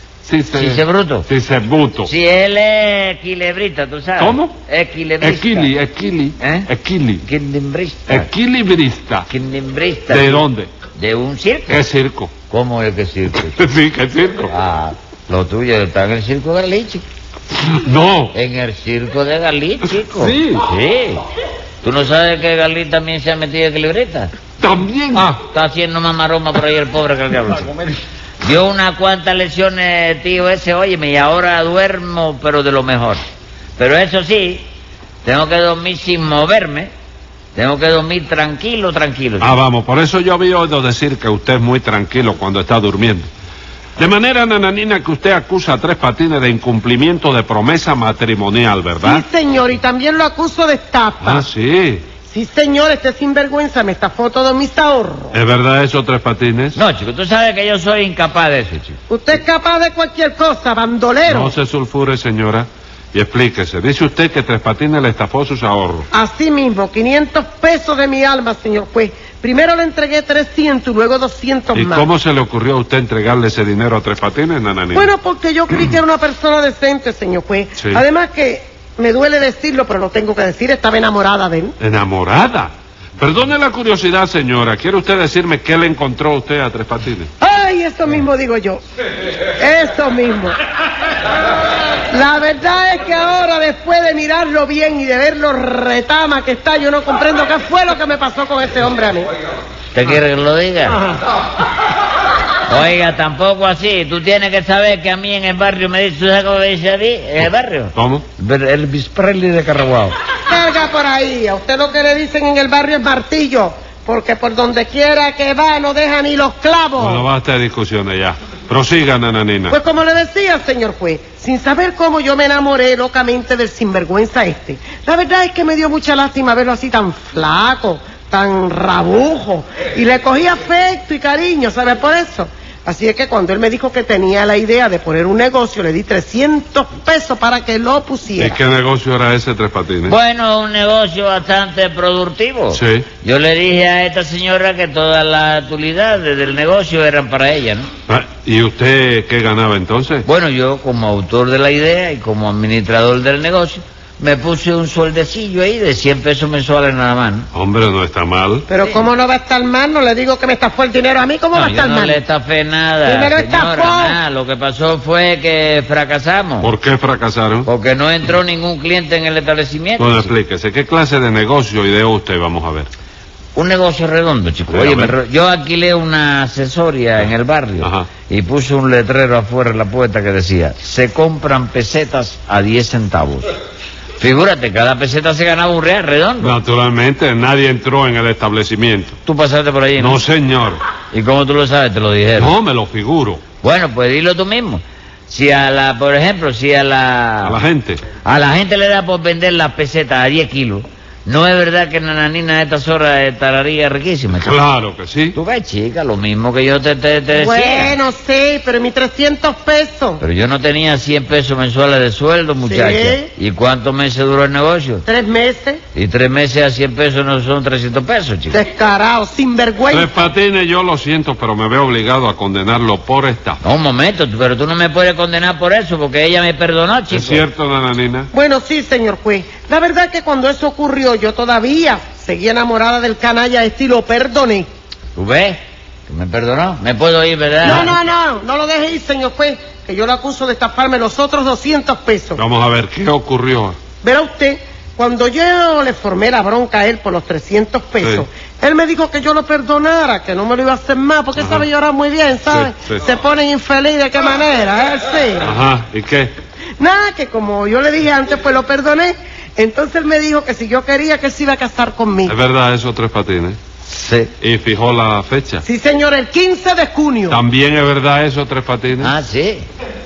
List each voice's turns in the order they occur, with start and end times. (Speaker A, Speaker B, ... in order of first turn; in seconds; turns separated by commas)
Speaker A: 0.2-2.1, Speaker B: 0.6-1.2, Speaker B: 2.0-5.7, Speaker A: 4.2-4.5, Speaker A: 5.2-7.2, Speaker B: 6.4-6.7, Speaker B: 7.2-8.3, Speaker A: 8.1-9.3, Speaker B: 9.3-11.8, Speaker A: 10.1-10.7, Speaker A: 11.7-12.3, Speaker B: 12.5-13.6, Speaker A: 13.6-14.5, Speaker B: 14.5-17.1, Speaker A: 17.6-18.4, Speaker B: 18.3-21.2, Speaker A: 20.1-20.6, Speaker B: 21.8-24.3, Speaker A: 24.6-25.4, Speaker B: 25.1-27.7, Speaker B: 28.4-33.2, Speaker B: 33.8-34.7, Speaker B: 35.2-36.9, Speaker B: 37.5-39.5, Speaker A: 39.4-43.3, Speaker A: 44.0-49.2, Speaker C: 49.0-51.5, Speaker A: 51.2-52.1, Speaker C: 52.3-55.4, Speaker A: 55.3-56.8, Speaker B: 56.8-59.0, Speaker C: 59.1-61.5, Speaker A: 61.3-66.1, Speaker C: 66.1-72.1, Speaker A: 71.7-75.1, Speaker C: 74.9-81.8, Speaker A: 77.8-78.0, Speaker A: 81.8-87.3, Speaker C: 87.4-88.8, Speaker C: 89.6-90.6, Speaker C: 92.1-99.3, Speaker B: 99.9-101.0, Speaker B: 102.7-110.1, Speaker A: 107.4-108.2, Speaker C: 110.5-117.3, Speaker A: 117.0-119.8, Speaker C: 119.7-138.6, Speaker A: 138.4-140.2, Speaker B: 140.1-147.9, Speaker A: 142.7-143.1, Speaker A: 148.1-150.2, Speaker B: 150.2-157.5, Speaker A: 157.5-158.7, Speaker C: 158.7-162.2, Speaker B: 161.5-166.7, Speaker C: 163.1-164.2, Speaker A: 166.6-167.7, Speaker B: 167.7-170.3, Speaker A: 170.0-172.9, Speaker B: 173.6-183.5, Speaker A: 174.7-175.1, Speaker A: 177.2-178.1, Speaker B: 184.2-186.6, Speaker A: 186.4-189.2, Speaker B: 189.3-190.2, Speaker A: 190.0-190.8, Speaker B: 191.1-192.5, Speaker A: 192.4-193.4, Speaker B: 193.6-197.6, Speaker A: 197.4-198.0, Speaker B: 198.2-204.5, Speaker A: 204.3-205.4, Speaker B: 205.3-208.0, Speaker C: 207.3-210.2, Speaker B: 210.2-215.1, Speaker C: 212.6-213.3, Speaker C: 215.1-215.8, Speaker B: 215.9-218.6, Speaker C: 218.5-220.3, Speaker A: 219.9-223.6, Speaker B: 223.6-227.4, Speaker A: 227.1-228.3, Speaker C: 228.3-234.7, Speaker B: 235.1-238.0, Speaker C: 237.6-242.4, Speaker A: 242.4-243.8, Speaker C: 244.0-255.5, Speaker A: 251.4-251.7, Speaker A: 252.5-253.1, Speaker A: 255.4-256.3, Speaker C: 256.8-262.4, Speaker A: 262.3-263.6, Speaker B: 263.9-264.3, Speaker A: 264.4-265.6, Speaker C: 265.6-267.4, Speaker A: 267.3-269.1, Speaker B: 269.0-269.6